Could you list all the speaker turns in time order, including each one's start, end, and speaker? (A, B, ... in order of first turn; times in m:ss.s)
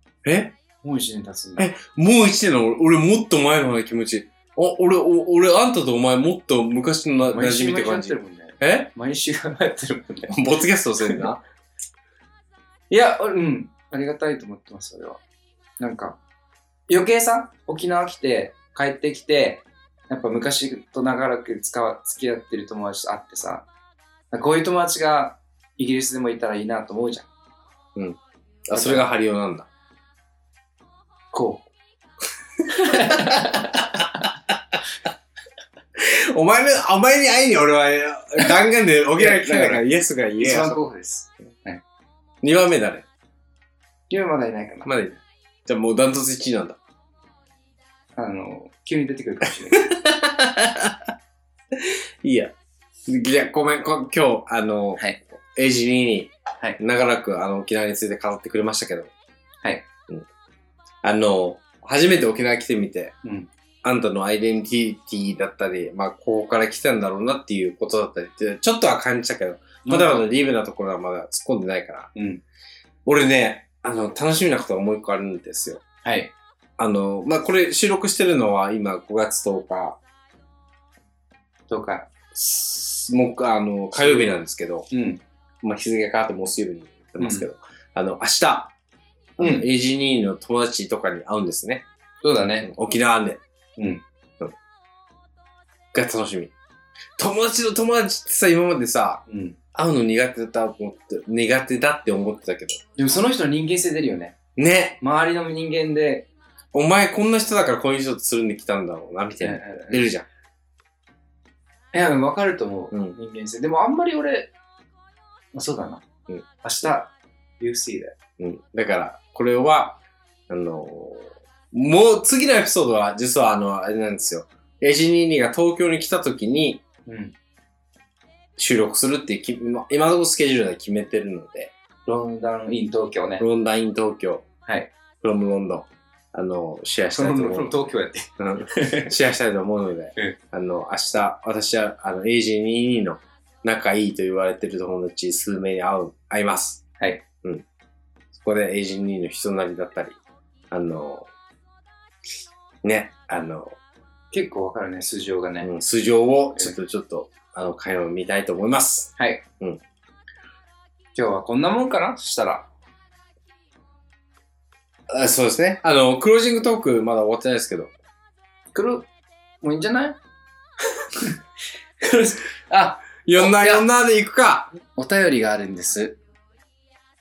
0:00.2-0:00.5 A
0:00.8-0:01.7 B
0:01.6-0:08.9 A
0:07.2-0:10.3 B
0:10.3-0:11.4 A
0:12.9-0:15.2 B
0:15.8-0:16.2 B
0:16.9-0:23.6 B
0:24.3-0:27.3 B
0:27.9-0:29.7 A
0:28.7-0:29.1 B
0:31.3-0:31.7 B
0:32.7-0:34.2 B
0:32.9-0:33.2 A
0:36.0-0:40.8 A
0:39.2-0:39.8 B
0:40.4-0:41.8 B
0:42.4-0:43.0 A
0:44.1-0:45.0 B
0:44.8-0:46.8 A
0:48.1-0:50.0 B
0:49.8-0:51.1 A
0:51.7-0:52.5 A
0:53.1-0:59.1 A
1:01.0-1:03.1 A
1:03.2-1:03.5 B
1:03.8-1:12.1 A
1:09.8-1:10.2 B
1:12.1-1:12.4 B
1:13.0-1:15.8 A
1:16.0-1:16.3 B
1:16.8-1:20.0 A
1:21.7-1:22.1 B
1:22.3-1:24.9 A
1:24.0-1:24.3 B
1:24.9-1:25.2 B
1:25.6-1:28.7 A
1:27.2-1:27.5 B
1:29.4-1:31.8 A
1:29.4-1:29.7 B
1:32.2-1:32.7 B
1:32.6-1:33.4 A
1:33.8-1:34.0 B
1:35.9-1:36.5 A
1:37.2-1:42.8 A
1:39.3-1:39.6 B
1:43.0-1:44.4 B
1:44.6-1:45.0 A
1:45.0-1:46.3 B
1:46.7-1:50.2 A
1:49.4-1:50.1 B
1:51.9-1:54.5 B
1:52.9-1:53.2 A
1:55.5-1:56.0 B
1:56.6-1:58.2 B
1:58.4-2:06.8 A
2:07.0-2:07.3 B
2:08.6-2:11.7 A
2:12.0-2:13.4 B
2:13.4-2:14.4 A
2:14.6-2:14.9 B
2:15.2-2:17.8 A
2:17.1-2:19.1 B
2:18.4-2:26.8 A
2:28.3-2:30.2 A
2:30.7-2:31.3 A
2:32.8-2:33.8 A
2:34.3-2:35.7 B
2:35.6-2:39.8 A
2:39.2-2:39.4 B
2:41.1-2:42.7 B
2:45.1-2:47.9 A
2:48.7-2:49.1 B
2:49.6-2:50.2 B
2:52.0-2:53.8 B
2:53.2-2:54.8 A
2:55.0-2:56.2 B